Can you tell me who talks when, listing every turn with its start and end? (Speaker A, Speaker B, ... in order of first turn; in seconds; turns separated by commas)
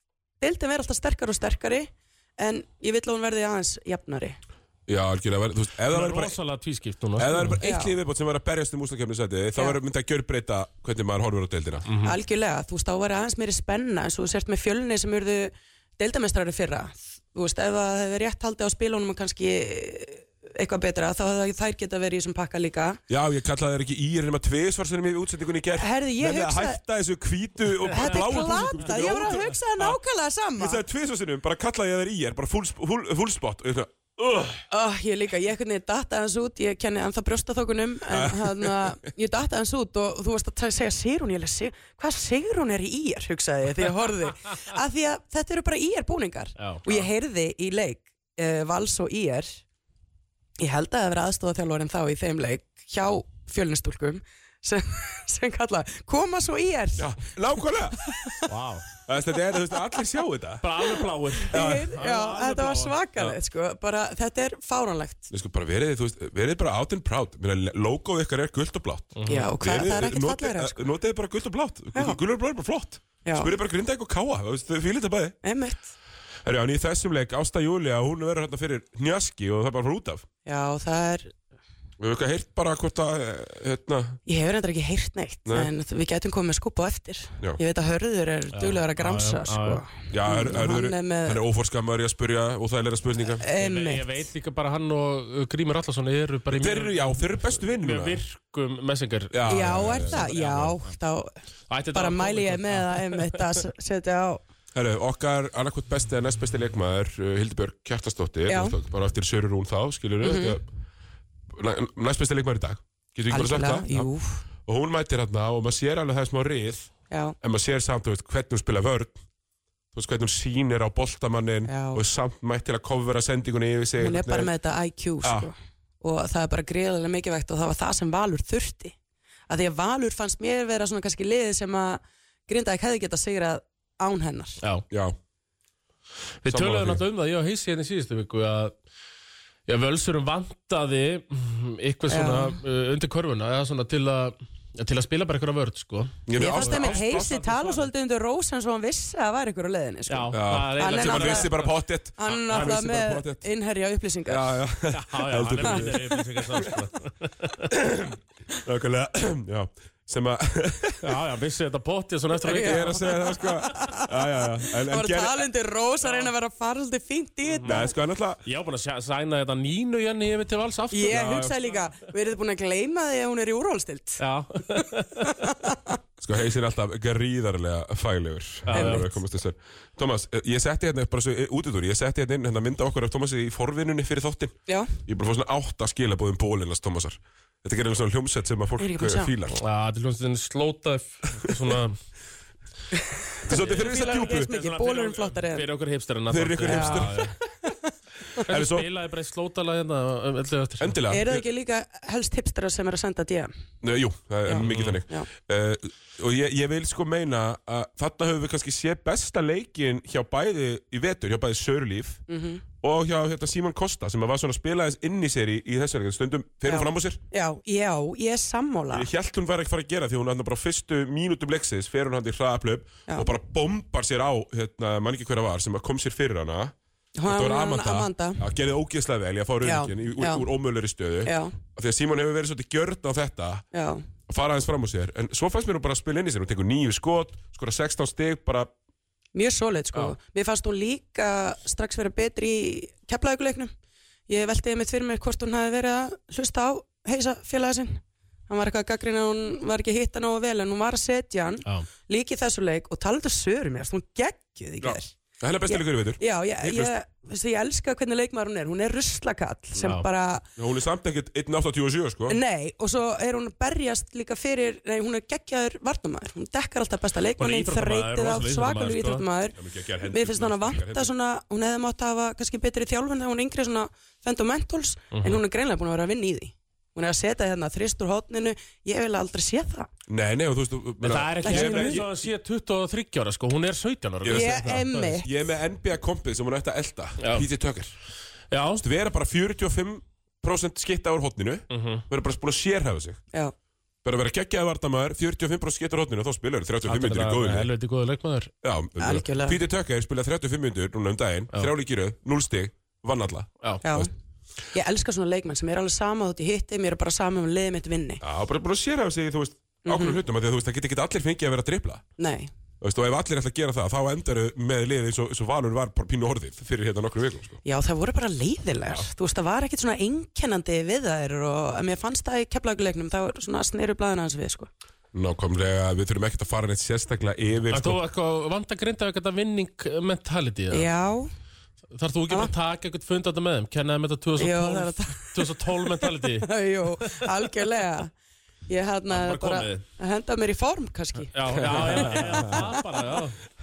Speaker A: 0.4-4.4, Speaker B: 4.9-6.4, Speaker C: 5.9-7.6, Speaker B: 7.2-11.9, Speaker A: 7.6-8.0, Speaker C: 11.9-12.2, Speaker A: 12.0-23.0, Speaker B: 23.1-30.0, Speaker A: 25.8-26.8, Speaker A: 27.9-30.8, Speaker C: 28.8-29.4, Speaker B: 30.6-34.6, Speaker A: 34.7-49.6, Speaker B: 38.1-39.0, Speaker C: 46.6-47.0, Speaker A: 50.6-57.4, Speaker B: 57.0-58.4, Speaker A: 57.9-58.5, Speaker C: 58.5-58.9, Speaker B: 59.0-60.7, Speaker C: 60.6-63.3, Speaker B: 61.4-61.9, Speaker A: 61.5-65.3, Speaker B: 65.3-75.4, Speaker C: 69.2-69.5, Speaker A: 69.2-70.8, Speaker A: 73.2-73.5, Speaker A: 75.4-75.9, Speaker B: 76.5-80.2, Speaker A: 80.5-81.3, Speaker B: 82.0-84.2, Speaker A: 84.2-91.4, Speaker B: 85.5-85.7, Speaker C: 88.5-89.8, Speaker B: 90.1-93.4, Speaker A: 93.4-94.2, Speaker C: 93.5-100.8, Speaker B: 96.5-98.2, Speaker B: 99.3-100.2, Speaker A: 99.5-101.3, Speaker C: 101.7-103.4, Speaker A: 101.9-104.4, Speaker B: 104.7-110.6, Speaker A: 108.5-108.8, Speaker A: 110.2-110.6, Speaker B: 111.5-114.1, Speaker A: 113.3-114.4, Speaker B: 114.7-119.2, Speaker A: 117.1-117.4, Speaker B: 119.9-124.5, Speaker A: 121.7-122.0, Speaker A: 124.0-128.9, Speaker B: 125.2-125.5, Speaker A: 129.5-134.6, Speaker B: 134.9-135.2, Speaker C: 136.4-138.8, Speaker B: 136.5-137.0, Speaker C: 139.7-147.9, Speaker A: 142.1-142.6, Speaker B: 146.3-147.4, Speaker A: 146.4-151.6, Speaker C: 150.1-151.8, Speaker B: 150.3-153.4, Speaker A: 152.2-154.5, Speaker C: 152.5-152.8, Speaker B: 154.2-156.8, Speaker C: 154.9-157.7, Speaker A: 155.6-155.9, Speaker B: 157.7-161.2, Speaker C: 161.0-163.2, Speaker A: 162.4-167.9, Speaker B: 162.5-165.4, Speaker C: 167.6-167.9, Speaker B: 167.6-168.4, Speaker C: 168.4-171.5, Speaker A: 170.9-174.2, Speaker B: 171.1-171.5, Speaker C: 174.2-175.3, Speaker A: 174.7-176.0, Speaker B: 176.2-189.6, Speaker C: 178.7-179.1, Speaker A: 178.7-179.2, Speaker A: 184.7-184.9, Speaker A: 188.8-189.3, Speaker C: 189.5-192.0, Speaker A: 192.9-195.7, Speaker B: 193.4-194.5, Speaker C: 193.5-197.4, Speaker B: 196.3-197.3, Speaker A: 196.7-198.4, Speaker B: 198.4-198.9, Speaker C: 198.4-201.0, Speaker B: 200.8-201.4, Speaker A: 201.1-203.5, Speaker B: 203.8-212.2, Speaker A: 204.5-205.3, Speaker C: 204.6-205.0, Speaker A: 212.3-212.6, Speaker B: 212.8-217.2, Speaker A: 216.7-219.1, Speaker B: 218.9-226.8, Speaker A: 227.2-228.4, Speaker B: 227.2-233.7, Speaker A: 229.6-230.5, Speaker A: 231.2-231.6, Speaker A: 233.7-234.0, Speaker B: 234.3-238.7, Speaker A: 239.3-243.7, Speaker A: 244.3-255.1, Speaker B: 254.8-256.9, Speaker A: 255.7-260.5, Speaker C: 259.8-260.1, Speaker B: 260.6-262.4, Speaker A: 262.3-279.9, Speaker C: 267.4-269.2, Speaker B: 269.6-271.1, Speaker C: 275.1-275.4, Speaker B: 280.1-282.1, Speaker C: 281.0-285.2, Speaker A: 281.4-282.1, Speaker B: 284.2-287.9, Speaker A: 284.3-285.3, Speaker C: 287.2-287.5, Speaker C: 288.5-288.8, Speaker B: 288.8-293.2, Speaker C: 291.7-292.1, Speaker B: 294.0-297.7, Speaker C: 296.9-298.5, Speaker B: 298.6-304.1, Speaker A: 299.0-299.6, Speaker A: 303.8-304.1, Speaker A: 304.7-308.2, Speaker B: 308.2-312.0, Speaker A: 309.9-310.2, Speaker A: 312.2-312.5, Speaker B: 312.8-317.6, Speaker A: 317.6-324.7, Speaker B: 325.1-328.0, Speaker C: 327.7-330.9, Speaker A: 330.7-331.3, Speaker C: 331.9-337.2, Speaker A: 334.4-338.1, Speaker A: 338.7-343.0, Speaker C: 339.1-339.8, Speaker C: 341.3-343.4, Speaker B: 341.6-342.6